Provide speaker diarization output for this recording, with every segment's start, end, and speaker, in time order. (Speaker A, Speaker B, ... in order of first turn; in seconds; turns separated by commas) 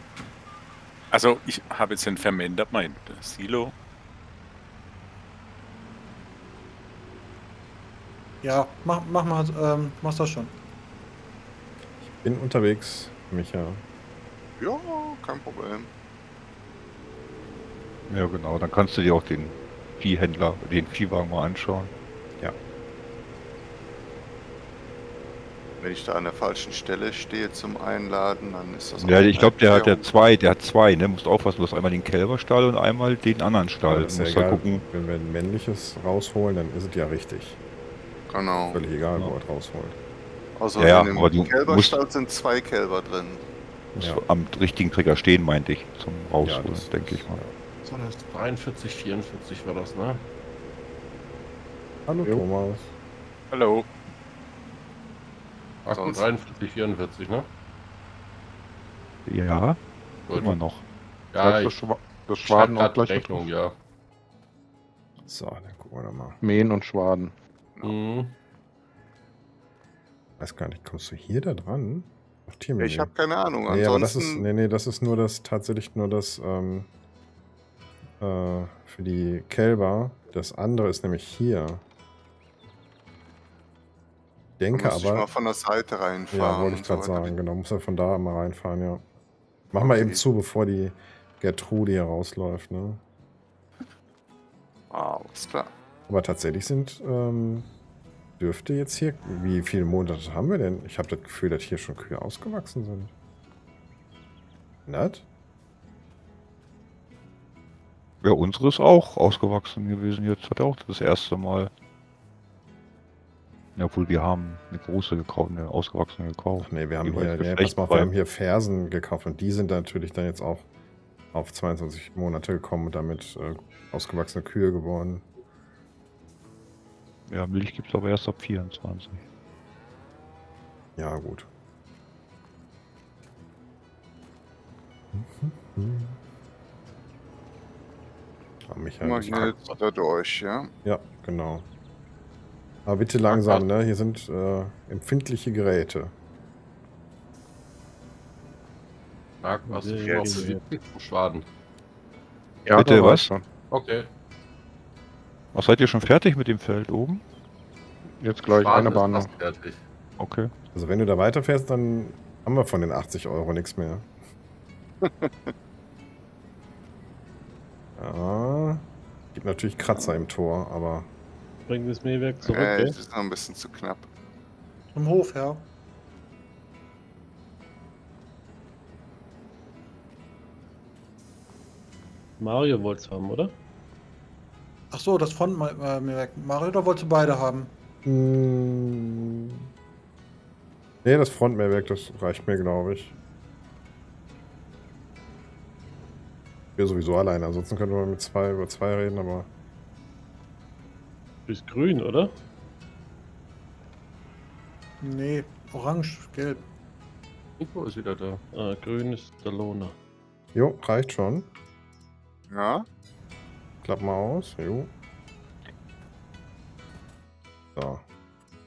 Speaker A: 1.1-3.7, Speaker B: 8.4-10.5, Speaker C: 12.0-13.8, Speaker D: 14.6-15.9, Speaker E: 18.1-21.9, Speaker D: 25.8-30.1, Speaker E: 29.0-34.8, Speaker C: 33.9-37.6, Speaker D: 38.3-38.8, Speaker C: 38.7-40.0, Speaker D: 40.6-43.4, Speaker E: 40.8-42.0, Speaker E: 43.9-47.4, Speaker C: 46.4-47.5, Speaker D: 47.9-48.1, Speaker F: 47.9-50.2, Speaker C: 52.1-52.9, Speaker A: 53.5-53.9, Speaker F: 55.8-57.5, Speaker E: 59.2-59.8, Speaker F: 60.3-60.5, Speaker E: 60.3-60.8, Speaker F: 61.3-61.7, Speaker G: 61.4-63.5, Speaker F: 62.4-63.8, Speaker C: 65.2-66.4, Speaker G: 66.4-67.3, Speaker F: 67.8-68.3, Speaker C: 70.4-73.1, Speaker D: 72.8-74.5, Speaker C: 73.7-76.9, Speaker C: 78.2-81.8, Speaker C: 84.6-85.3, Speaker D: 84.7-87.3, Speaker C: 86.3-89.0, Speaker C: 89.7-93.0, Speaker D: 89.8-90.2, Speaker D: 94.9-95.7, Speaker C: 96.1-97.7, Speaker C: 98.4-103.1, Speaker C: 104.9-105.2, Speaker E: 108.2-111.7, Speaker E: 113.8-118.1, Speaker C: 116.6-120.7, Speaker C: 121.3-125.2, Speaker E: 127.3-129.2, Speaker C: 131.0-131.5, Speaker C: 135.1-136.2, Speaker C: 138.7-139.6, Speaker D: 139.0-140.7, Speaker C: 140.8-141.7, Speaker C: 142.8-146.1, Speaker F: 143.2-143.8, Speaker F: 149.4-151.4, Speaker H: 149.7-150.6, Speaker D: 150.1-150.5, Speaker G: 152.7-153.5, Speaker E: 152.8-153.3, Speaker F: 153.7-154.1, Speaker E: 155.5-157.2, Speaker G: 158.2-159.3, Speaker F: 158.5-159.8, Speaker E: 160.2-160.5, Speaker C: 160.7-164.1, Speaker D: 165.0-165.5, Speaker C: 168.0-171.1, Speaker H: 171.7-172.9, Speaker D: 172.5-174.1, Speaker B: 174.9-175.7, Speaker H: 182.4-183.6, Speaker B: 184.9-187.7, Speaker C: 188.0-189.6, Speaker C: 191.0-193.1, Speaker C: 196.8-199.5, Speaker H: 201.4-202.3, Speaker B: 205.0-206.7, Speaker F: 207.6-208.4, Speaker H: 208.5-209.9, Speaker C: 210.5-211.5, Speaker D: 212.5-212.8, Speaker C: 213.8-214.9, Speaker C: 217.8-218.0